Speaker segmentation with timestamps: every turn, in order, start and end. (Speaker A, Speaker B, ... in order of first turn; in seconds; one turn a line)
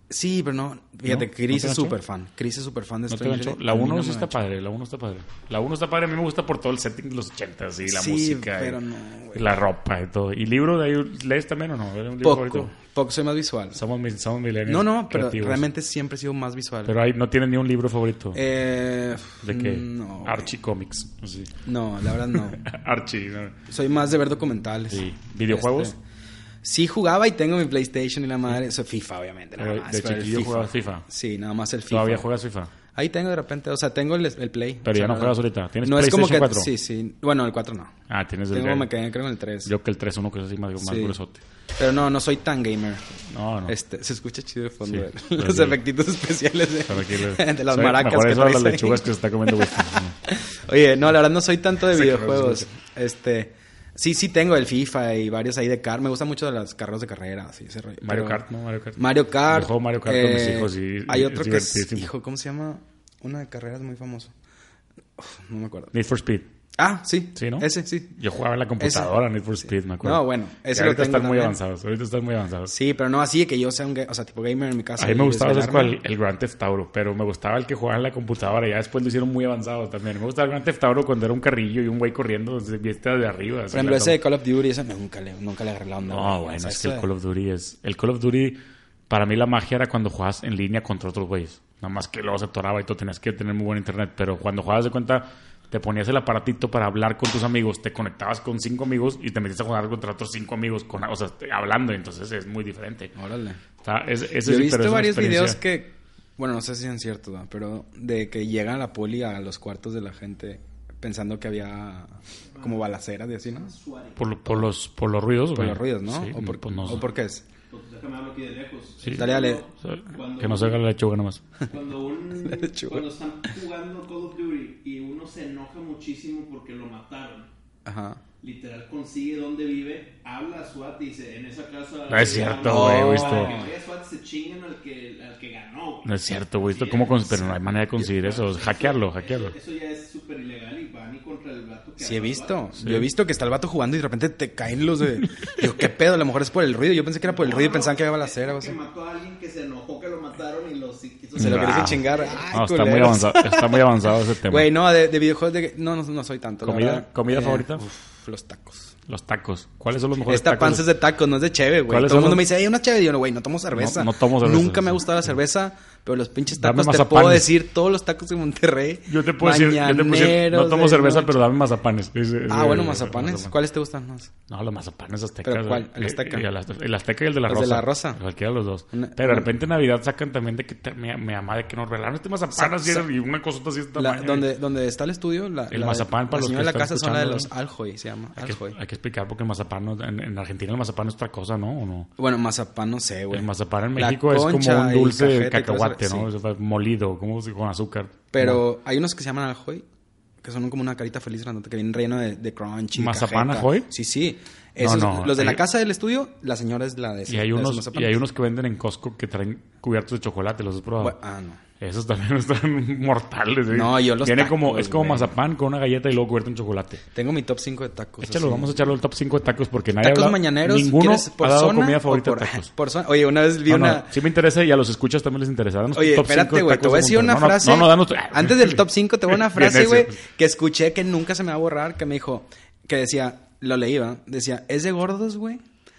Speaker A: 0.1-4.4
Speaker B: 1.1-2.0
Speaker B: 3.1-8.8
Speaker A: 7.8-9.6
Speaker B: 9.3-12.7
Speaker A: 12.2-13.8
Speaker B: 13.7-15.6
Speaker A: 14.7-16.9
Speaker B: 16.9-18.4
Speaker A: 18.3-20.5
Speaker B: 19.4-21.5
Speaker A: 21.6-22.6
Speaker B: 22.3-23.6
Speaker A: 23.7-25.9
Speaker B: 24.9-25.9
Speaker A: 26.6-32.3
Speaker B: 29.6-31.0
Speaker B: 31.9-32.7
Speaker A: 32.9-38.0
Speaker B: 34.8-36.7
Speaker B: 38.1-38.9
Speaker A: 38.5-39.7
Speaker B: 39.6-41.4
Speaker A: 40.8-41.1
Speaker A: 41.8-58.4
Speaker B: 43.3-43.7
Speaker B: 44.9-45.8
Speaker B: 46.9-50.2
Speaker B: 51.9-52.7
Speaker B: 58.0-62.1
Speaker A: 59.0-64.3
Speaker A: 65.2-65.9
Speaker B: 65.9-66.5
Speaker A: 66.8-68.1
Speaker B: 67.3-72.7
Speaker A: 68.8-69.1
Speaker A: 70.0-71.6
Speaker A: 72.7-76.0
Speaker B: 75.0-84.2
Speaker A: 83.7-87.0
Speaker B: 86.1-103.1
Speaker A: 103.2-103.6
Speaker B: 103.8-105.6
Speaker A: 104.4-113.7
Speaker C: 112.6-112.9
Speaker C: 113.5-114.2
Speaker B: 114.2-117.0
Speaker A: 115.5-117.4
Speaker C: 117.7-120.8
Speaker B: 119.0-121.4
Speaker A: 119.1-119.6
Speaker C: 121.7-127.5
Speaker A: 122.3-123.0
Speaker A: 127.8-128.2
Speaker C: 128.4-136.1
Speaker B: 132.1-133.5
Speaker A: 132.6-133.7
Speaker B: 136.0-139.5
Speaker C: 136.6-137.3
Speaker A: 137.3-137.6
Speaker C: 138.0-142.6
Speaker A: 142.0-148.8
Speaker B: 142.8-143.1
Speaker C: 147.2-152.5
Speaker A: 151.3-153.9
Speaker B: 151.4-154.7
Speaker A: 154.4-158.9
Speaker B: 156.6-157.8
Speaker B: 159.1-160.8
Speaker A: 160.2-171.4
Speaker B: 161.9-162.4
Speaker B: 163.7-165.1
Speaker B: 166.5-167.5
Speaker B: 169.1-173.5
Speaker A: 172.5-174.3
Speaker B: 174.5-184.5
Speaker A: 175.4-176.4
Speaker A: 177.5-178.2
Speaker A: 178.9-179.5
Speaker A: 182.5-183.1
Speaker A: 183.9-188.8
Speaker B: 185.7-187.5
Speaker B: 188.3-192.1
Speaker A: 192.2-196.3
Speaker B: 193.3-198.6
Speaker A: 198.3-199.8
Speaker A: 200.4-208.2
Speaker B: 202.9-203.9
Speaker B: 204.8-205.6
Speaker B: 207.3-211.2
Speaker A: 211.0-211.6
Speaker B: 211.8-217.0
Speaker A: 213.7-215.3
Speaker A: 217.1-218.8
Speaker B: 218.2-222.7
Speaker A: 220.0-224.2
Speaker B: 223.7-230.2
Speaker A: 225.9-235.6